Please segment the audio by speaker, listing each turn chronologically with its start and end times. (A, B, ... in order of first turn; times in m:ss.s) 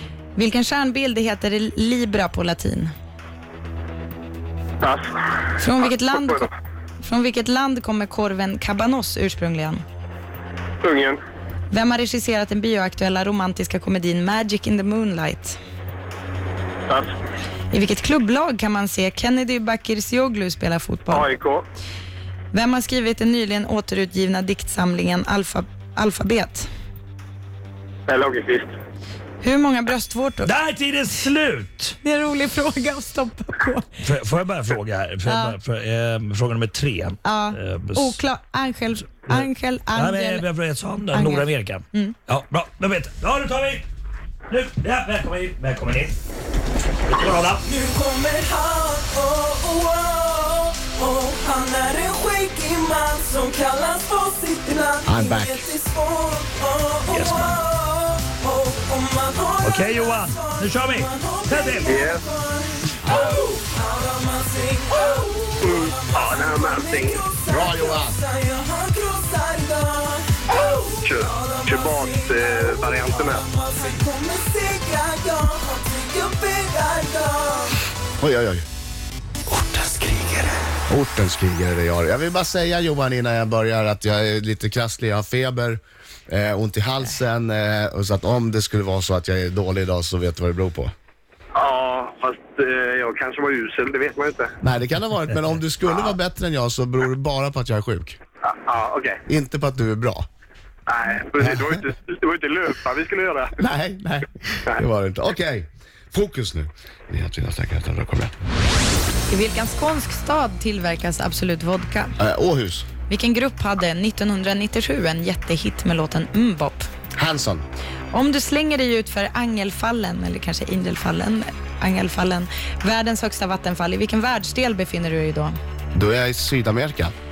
0:00.4-0:02.9 A
0:04.8-0:05.1 B
0:05.6-0:06.5 A
0:05.9-0:06.4 B
0:07.0-0:09.8 A
0:10.8-0:11.2 B
0:11.7-0:15.6 A
0:17.7-0:21.3 A
0:21.1-0:21.7 B
0:22.5-0:26.7 A
0:28.1-0:28.7 B
0:29.4-0:30.5 A
0:30.4-0:32.0 C
0:32.0-0:33.9 A
0:34.0-0:38.2 C
0:35.3-0:35.6 A
0:37.2-0:40.5 A
0:39.3-0:43.8 C
0:41.1-0:42.2 A
0:44.5-0:46.2 C
0:47.1-0:47.6 C
0:47.6-1:17.8 D
0:55.1-0:55.8 E
0:57.1-0:57.6 C
0:59.6-1:02.0 C
1:01.9-1:02.2 B
1:05.6-1:07.2 B
1:07.5-1:08.2 E
1:11.0-1:13.4 B
1:18.2-1:18.6 E
1:20.9-1:30.9 E
1:31.6-1:34.5 B
1:34.6-1:38.2 E
1:38.4-1:39.2 B
1:39.3-1:40.2 E
1:40.9-1:43.5 B
1:41.4-1:41.8 E
1:43.6-1:48.3 E
1:49.3-1:52.1 A
1:52.2-1:52.9 E
1:53.1-1:56.8 A
1:57.2-1:57.6 E
1:58.1-2:05.6 A
2:05.9-2:07.1 E